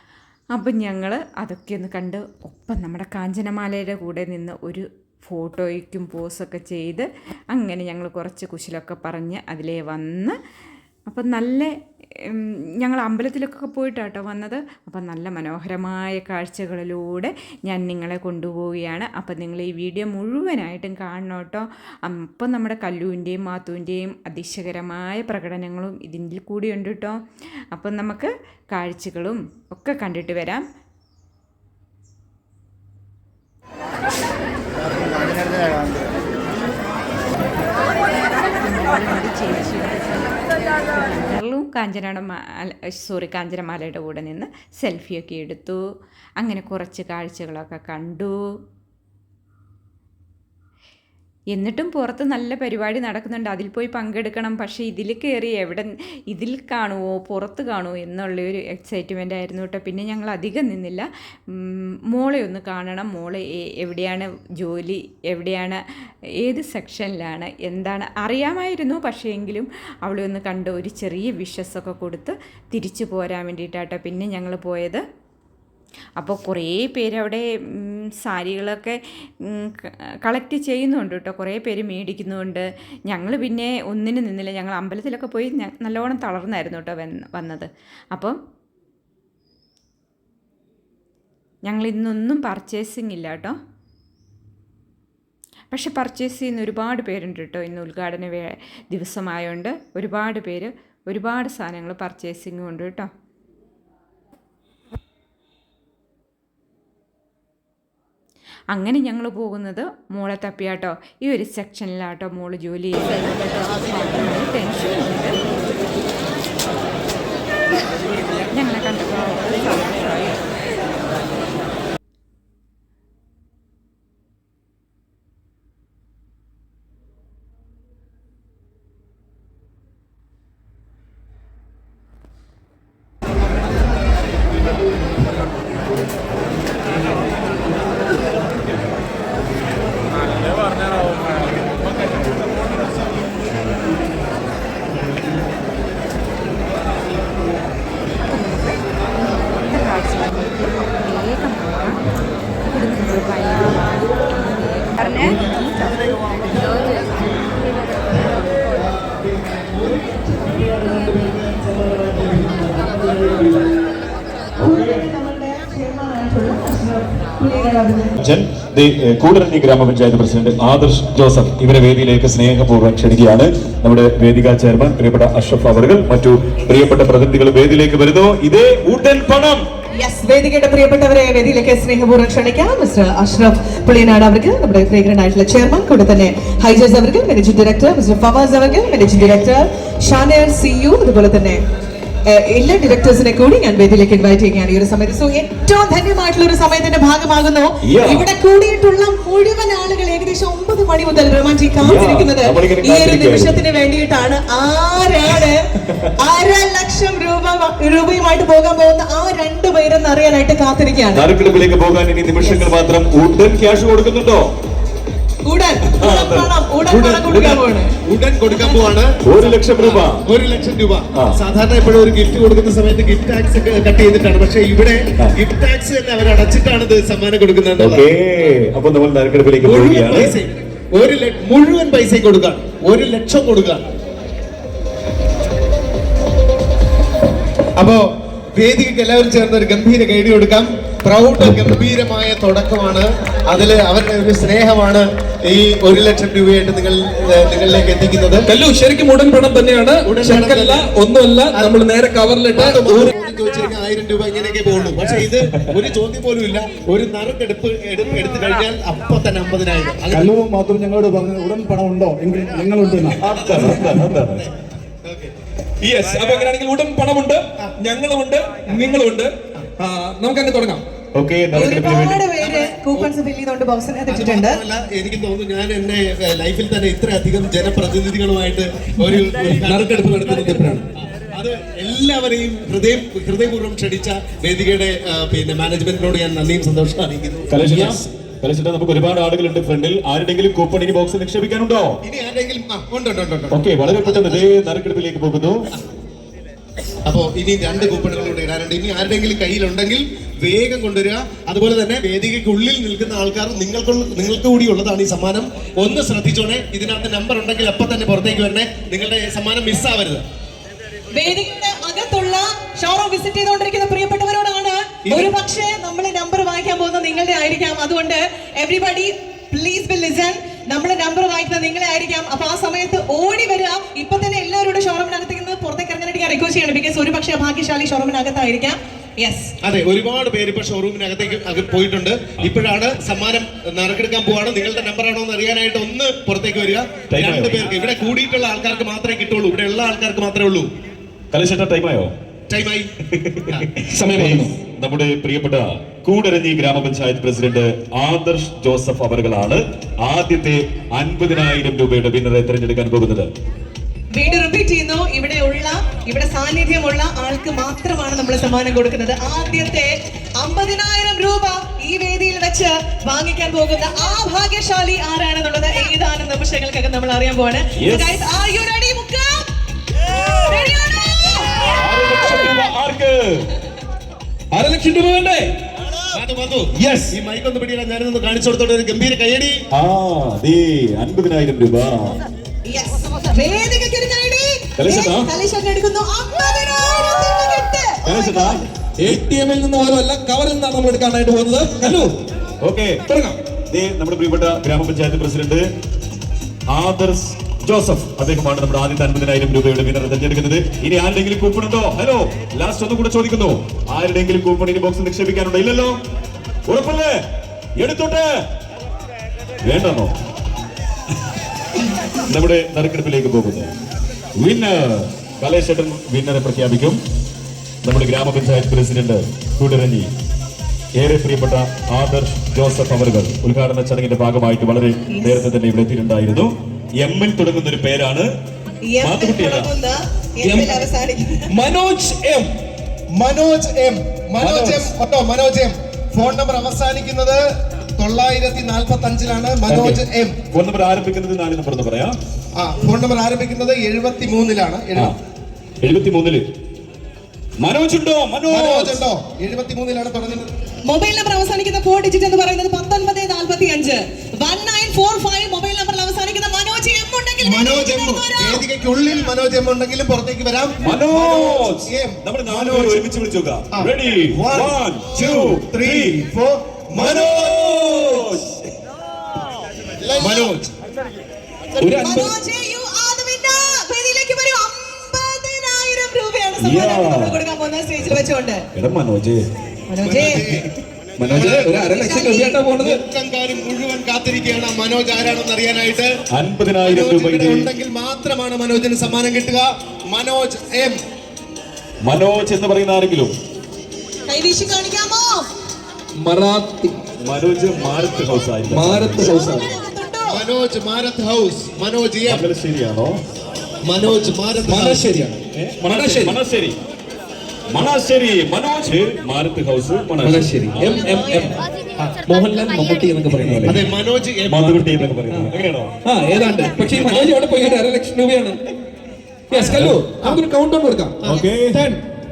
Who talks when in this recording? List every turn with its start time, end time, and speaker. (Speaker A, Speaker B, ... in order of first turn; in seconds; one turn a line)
Speaker A: 0.5-10.4
Speaker A: 11.1-27.2
Speaker A: 27.7-30.6
Speaker A: 38.5-40.2
Speaker A: 40.9-45.8
Speaker A: 46.4-48.4
Speaker A: 51.5-65.8
Speaker A: 66.4-75.0
Speaker A: 76.2-88.4
Speaker A: 91.7-93.6
Speaker A: 95.7-103.1
Speaker A: 108.7-115.3
Speaker A: 118.5-120.4
Speaker A: 148.2-152.0
Speaker A: 152.7-155.8
Speaker B: 155.1-163.7
Speaker C: 164.6-168.2
Speaker D: 164.6-165.1
Speaker D: 168.2-179.6
Speaker C: 179.9-191.6
Speaker C: 192.2-205.7
Speaker D: 197.8-198.3
Speaker D: 201.8-203.6
Speaker C: 206.2-211.3
Speaker D: 211.1-214.5
Speaker C: 215.4-217.9
Speaker D: 215.9-217.6
Speaker B: 218.0-228.1
Speaker D: 219.2-220.2
Speaker D: 227.8-230.4
Speaker B: 229.6-233.9
Speaker B: 237.8-238.0
Speaker B: 238.5-248.4
Speaker D: 241.4-241.8
Speaker E: 248.5-253.1
Speaker B: 250.0-250.8
Speaker B: 252.6-260.4
Speaker D: 255.3-255.7
Speaker F: 260.1-263.2
Speaker B: 263.1-264.5
Speaker D: 263.2-264.5
Speaker B: 265.0-265.3
Speaker E: 265.8-270.8
Speaker D: 271.1-272.2
Speaker C: 271.5-274.6
Speaker B: 272.4-273.1
Speaker B: 274.1-287.6
Speaker E: 279.1-280.8
Speaker D: 287.5-292.0
Speaker E: 287.6-288.0
Speaker B: 292.0-294.5
Speaker D: 293.5-295.6
Speaker B: 297.1-310.2
Speaker C: 311.1-329.5
Speaker B: 329.6-340.7
Speaker D: 337.1-337.7
Speaker D: 341.3-342.1
Speaker B: 342.5-342.9
Speaker D: 343.1-353.3
Speaker E: 343.9-344.5
Speaker C: 354.1-369.5
Speaker D: 367.8-368.2
Speaker C: 370.4-371.8
Speaker D: 371.6-373.4
Speaker E: 374.5-375.5
Speaker B: 376.1-379.6
Speaker E: 376.8-377.1
Speaker D: 379.7-382.2
Speaker C: 382.6-388.6
Speaker D: 384.8-385.3
Speaker D: 388.0-388.6
Speaker E: 389.0-392.2
Speaker D: 392.6-393.0
Speaker E: 393.1-393.4
Speaker D: 393.7-395.7
Speaker D: 396.7-406.0
Speaker D: 406.6-408.3
Speaker D: 409.6-410.1
Speaker D: 412.2-413.7
Speaker D: 414.4-417.0
Speaker D: 417.8-420.1
Speaker D: 420.9-428.3
Speaker C: 428.9-431.4
Speaker D: 429.0-429.7
Speaker E: 430.4-430.8
Speaker E: 431.4-432.5
Speaker B: 433.1-437.4
Speaker E: 434.4-434.8
Speaker B: 438.0-440.4
Speaker D: 439.7-442.1
Speaker B: 442.6-445.1
Speaker D: 445.8-446.5
Speaker D: 447.6-449.0
Speaker B: 448.5-450.5
Speaker C: 450.9-458.6
Speaker B: 457.4-463.0
Speaker D: 460.8-466.2
Speaker B: 463.7-467.5
Speaker D: 466.9-468.6
Speaker E: 467.4-468.3
Speaker B: 470.0-470.7
Speaker D: 470.2-470.5
Speaker C: 471.8-478.6
Speaker E: 471.8-472.3
Speaker D: 476.6-477.4
Speaker D: 478.0-479.5
Speaker C: 479.9-480.4
Speaker B: 480.0-481.7
Speaker D: 481.2-481.6
Speaker E: 481.3-483.0
Speaker C: 481.8-482.6
Speaker B: 482.7-486.2
Speaker D: 486.3-487.7
Speaker B: 486.8-491.0
Speaker D: 492.0-493.3
Speaker C: 494.3-495.5
Speaker E: 496.2-496.9
Speaker D: 497.2-499.4
Speaker E: 498.7-499.7
Speaker C: 499.2-500.4
Speaker B: 500.3-502.4
Speaker D: 502.2-503.2
Speaker B: 503.8-505.0
Speaker E: 504.6-506.4
Speaker D: 505.5-506.8
Speaker D: 507.7-511.1
Speaker E: 510.2-511.6
Speaker C: 510.8-511.6
Speaker E: 512.2-513.9
Speaker D: 513.4-513.9
Speaker B: 513.6-515.0
Speaker D: 514.5-515.9
Speaker E: 516.0-518.6
Speaker B: 517.0-517.2
Speaker E: 519.5-521.2
Speaker D: 519.6-520.0
Speaker B: 519.8-520.4
Speaker B: 521.2-521.5
Speaker D: 521.2-521.8
Speaker E: 521.7-522.0